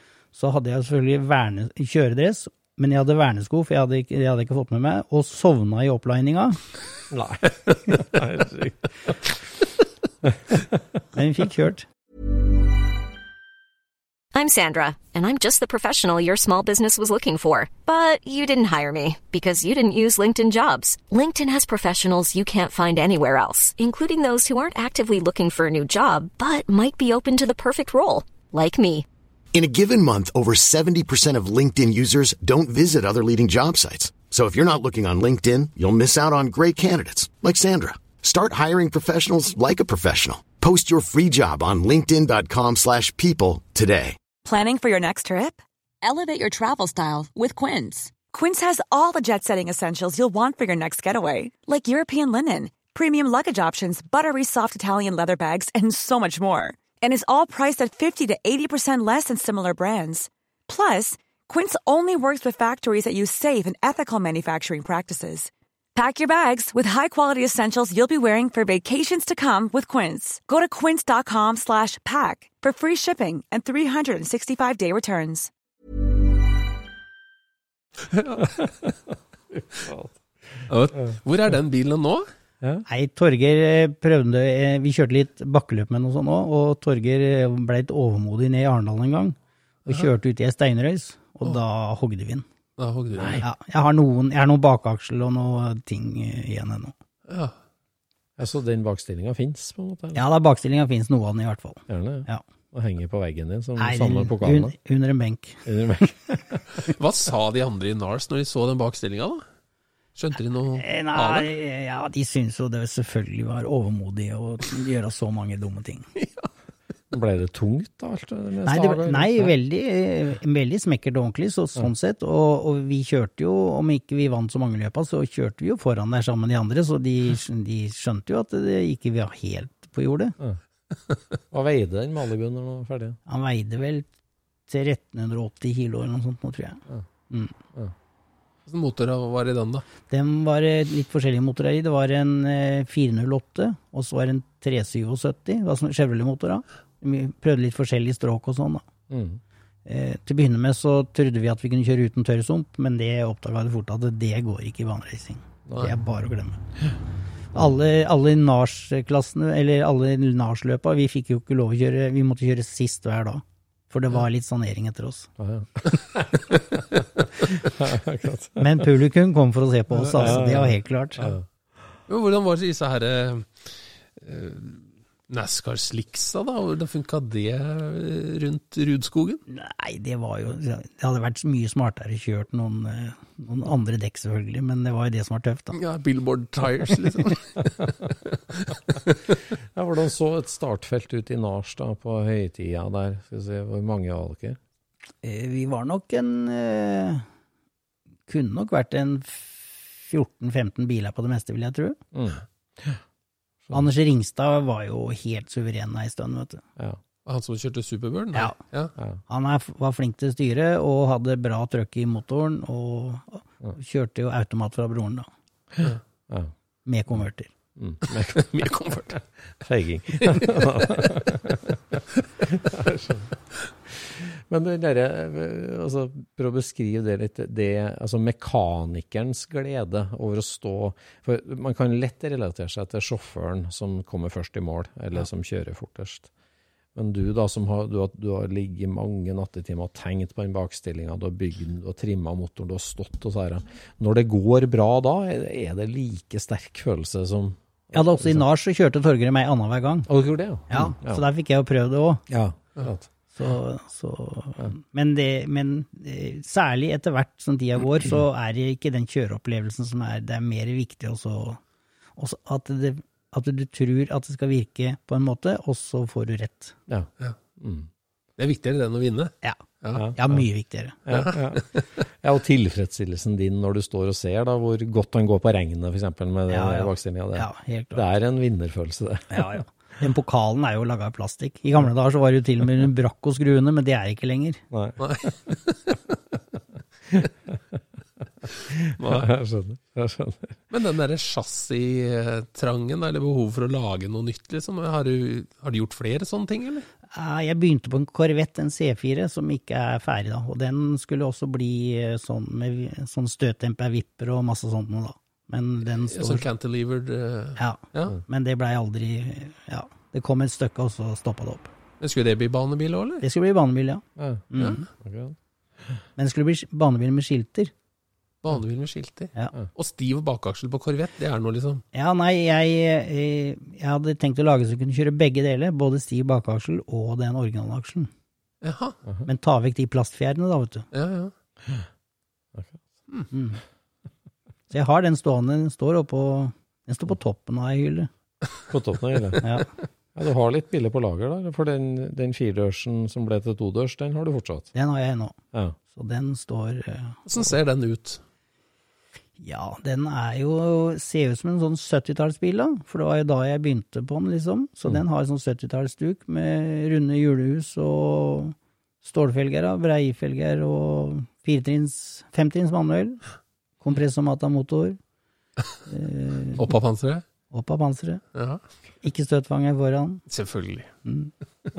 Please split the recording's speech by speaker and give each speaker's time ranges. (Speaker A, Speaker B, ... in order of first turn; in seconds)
Speaker A: 0.3-6.6, 11.1-11.9, 82.9-92.5, 93.4-96.9, 100.2-102.4, 103.8-106.1, 110.8-116.1, 118.7-130.3, 133.3-134.1, 134.7-137.5, 140.1-148.8, 149.9-156.6, 157.5-165.3, 168.6-171.3, 179.5-185.8, 195.2-197.2, 198.3-202.0, 203.7-206.6, 209.3-215.3, 216.9-217.5, 247.9-250.1, 250.7-252.2, 253.3-261.6, 262.2-266.8, 270.2-271.0, 276.5-278.0, 279.3-284.6, 297.1-306.5, 307.6-311.7, 313.2-314.9, 316.2-317.7, 321.9-328.1, 329.3-330.9, 333.3-333.6, 334.7-338.1, 339.4-339.7, 344.8-345.4, 345.9-347.2, 349.4-363.2, 363.8-365.0, 365.9-366.6, 367.5-368.2, 369.0-370.2, 371.1-371.3
Speaker B: 7.1-9.1, 10.3-10.6, 79.5-80.2, 93.2-93.4, 98.4-100.2, 101.9-104.8, 105.7-106.7, 117.1-119.5, 131.5-133.2, 149.1-149.4, 165.4-168.9, 170.2-171.4, 189.7-194.6, 202.1-203.0, 215.8-216.5, 217.8-218.5, 219.6-223.3, 223.9-236.3, 236.9-248.4, 250.1-251.2, 252.3-253.1, 266.9-267.9, 269.9-270.5, 271.1-279.5, 284.7-285.0, 287.1-287.8, 288.7-290.6, 314.2-316.0, 332.6-332.8, 338.7-339.6, 340.1-344.7
Speaker C: 14.3-29.1
Speaker D: 29.5-44.2
Speaker E: 44.4-75.5
Speaker F: 80.7-82.3, 92.8-93.4, 97.3-97.5, 106.8-109.4, 110.2-111.5, 116.2-116.5, 138.7-139.8, 170.0-170.3, 172.1-179.4, 185.7-187.7, 188.7-189.2, 207.3-208.9, 218.1-219.2, 220.2-220.5, 268.4-270.0, 271.1-271.4, 285.0-286.0, 289.0-289.3, 290.7-296.9, 306.0-308.2, 312.0-313.2, 318.4-321.8, 328.6-329.0, 330.9-331.3, 347.3-348.2, 366.6-367.2, 368.4-368.6, 370.3-370.9